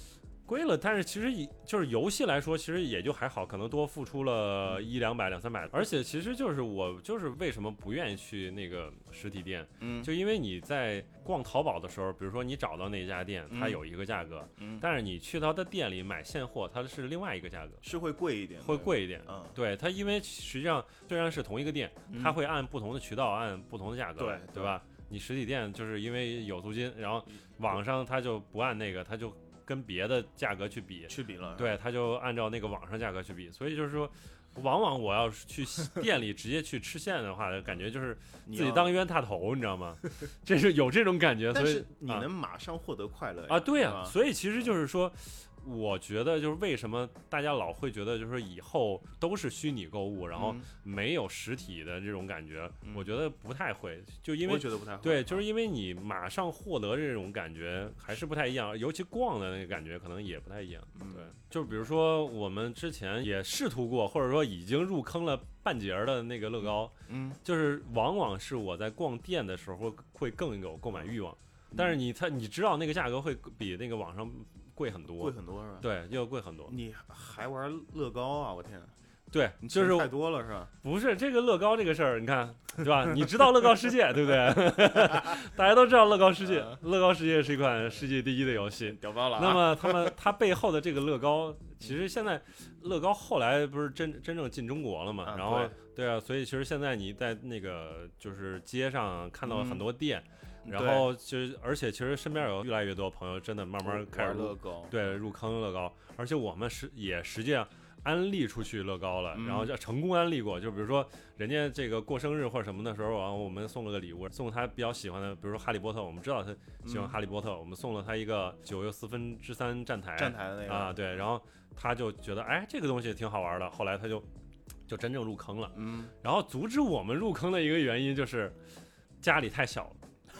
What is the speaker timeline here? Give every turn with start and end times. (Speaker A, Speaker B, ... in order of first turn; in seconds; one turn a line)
Speaker A: 0.5-17.8
Speaker B: 9.8-10.1
Speaker B: 13.5-13.8
Speaker B: 14.6-14.8
Speaker B: 17.8-19.6
Speaker A: 18.6-42.3
Speaker B: 22.1-22.4
Speaker B: 24.2-24.8
Speaker B: 31.1-31.8
Speaker B: 38.4-39.0
Speaker B: 41.5-44.1
Speaker A: 43.5-76.7
Speaker B: 50.3-50.7
Speaker B: 52.8-53.1
Speaker B: 54.4-55.4
Speaker B: 60.9-61.4
Speaker B: 67.1-67.4
Speaker B: 71.7-72.0
Speaker B: 75.2-75.9
Speaker B: 76.7-78.9
Speaker A: 79.3-80.1
Speaker B: 79.6-80.7
Speaker A: 80.8-124.3
Speaker B: 86.4-86.8
Speaker B: 88.8-90.1
Speaker B: 95.2-95.8
Speaker B: 99.4-99.8
Speaker B: 100.6-101.1
Speaker B: 103.8-105.2
Speaker B: 109.3-109.7
Speaker B: 116.8-117.2
Speaker B: 120.2-121.2
Speaker A: 124.9-128.6
Speaker B: 125.7-126.1
Speaker A: 129.2-130.0